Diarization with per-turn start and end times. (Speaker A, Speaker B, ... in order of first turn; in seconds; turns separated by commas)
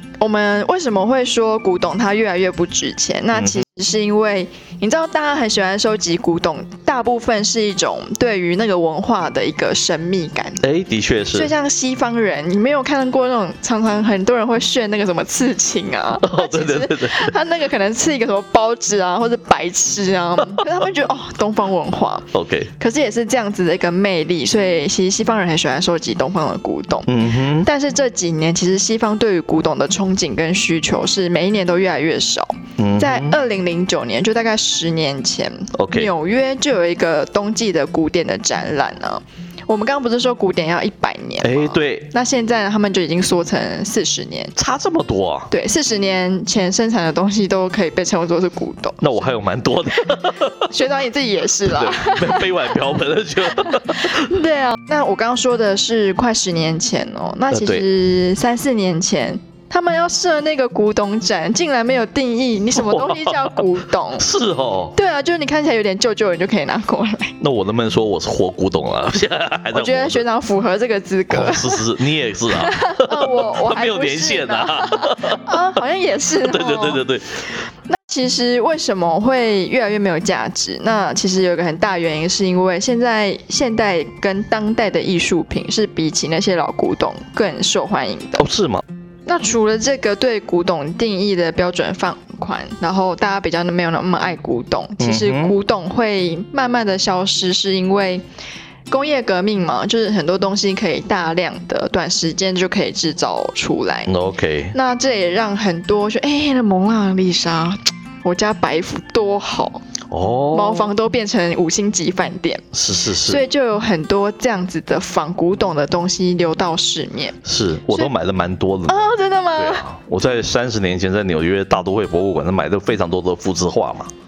Speaker A: 0.2-10.6, Speaker B: 3.3-3.6, Speaker B: 10.6-11.5, Speaker A: 11.3-22.3, Speaker B: 16.2-17.3, Speaker B: 22.3-22.7, Speaker A: 22.8-44.5, Speaker B: 27.1-27.7, Speaker B: 32.8-33.4, Speaker B: 35.7-36.1, Speaker B: 41.4-42.1, Speaker B: 44.5-45.5, Speaker A: 45.5-49.2, Speaker B: 49.0-50.7, Speaker A: 50.5-52.8, Speaker B: 51.7-54.3, Speaker A: 53.7-64.3, Speaker B: 57.5-57.9, Speaker B: 62.8-63.6, Speaker B: 64.2-65.0, Speaker A: 64.9-67.3, Speaker B: 67.4-70.2, Speaker A: 69.7-71.9, Speaker B: 71.3-75.6, Speaker A: 72.5-77.0, Speaker B: 76.4-77.5, Speaker A: 77.9-88.5, Speaker B: 88.4-88.8, Speaker A: 89.2-98.2, Speaker B: 95.0-95.5, Speaker A: 98.9-104.1, Speaker B: 104.0-104.8, Speaker A: 104.7-109.8, Speaker B: 110.1-110.9, Speaker A: 110.5-112.6, Speaker B: 112.7-113.4, Speaker A: 113.2-117.4, Speaker B: 117.4-119.0, Speaker A: 117.9-118.1, Speaker A: 118.9-119.9, Speaker B: 119.5-124.1